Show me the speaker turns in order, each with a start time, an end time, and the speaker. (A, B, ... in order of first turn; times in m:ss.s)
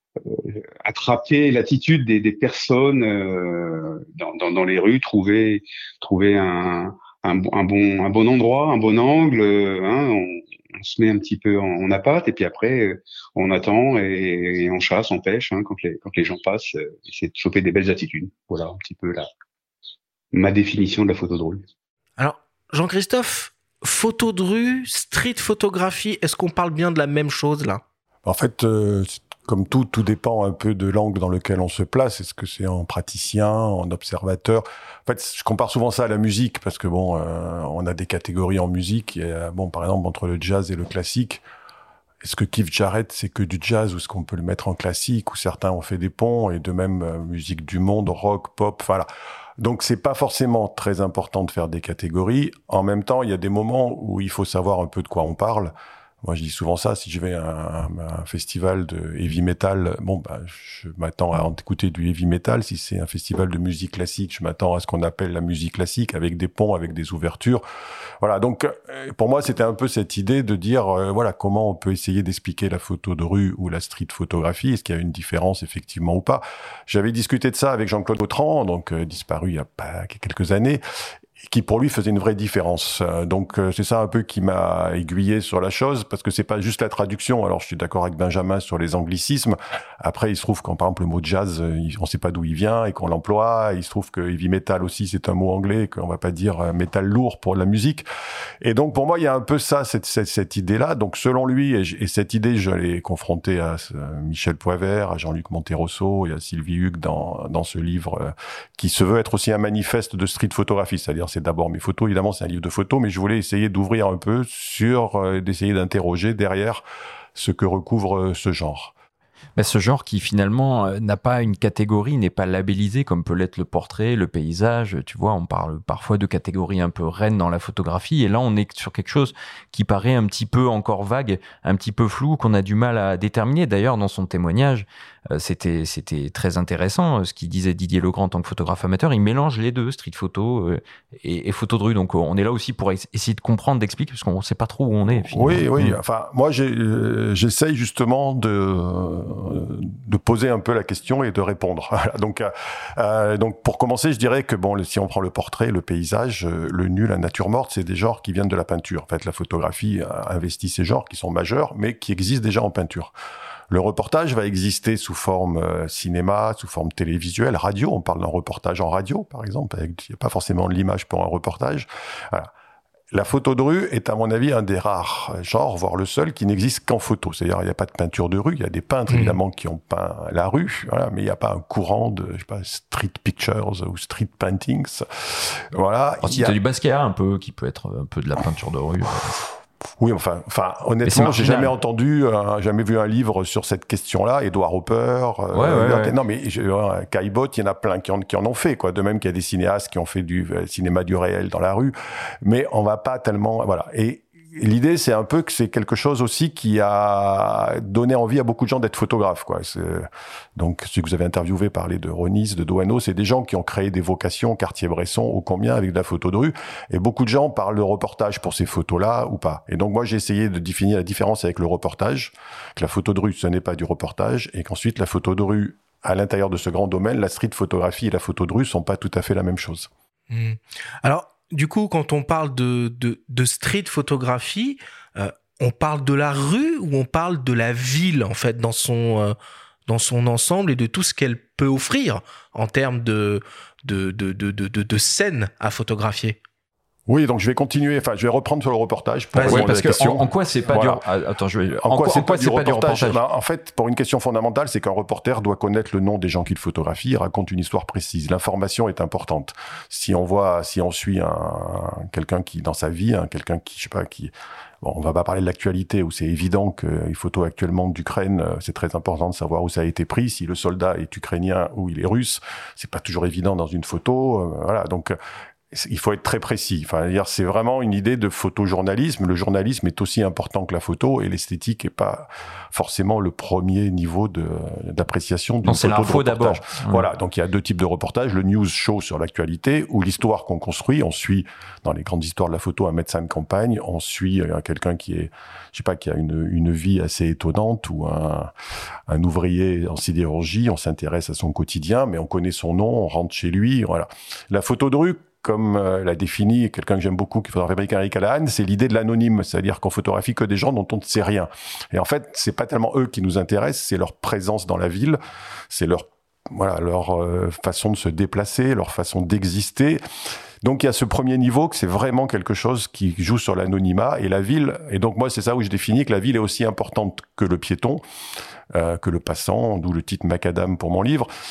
0:00.3-0:19.3 A
0:20.3-0:21.6 A
0:22.2-0:27.8 B
0:28.3-0:41.4 C
0:42.2-0:49.1 C
0:49.6-1:07.6 C
1:08.2-1:20.8 C
1:21.4-1:38.1 C
1:38.6-1:56.8 C
1:57.4-1:58.9 C
1:59.6-2:26.0 D
2:25.2-2:43.1 C
2:43.7-2:52.5 C
2:53.1-3:06.6 C
2:59.1-2:59.4 B
3:06.2-3:09.4 D
3:10.0-3:49.9 C
3:11.0-3:11.7 D
3:15.5-3:16.2 D
3:50.3-3:59.4 B
3:59.9-4:06.4 B
4:07.1-4:11.0 C
4:09.3-4:09.7 B
4:09.5-4:13.2 D
4:11.8-4:35.2 C
4:35.7-4:58.5 C
4:45.6-4:47.1 D
4:59.1-5:20.0 C
5:20.6-5:28.0 C
5:28.7-5:31.3 C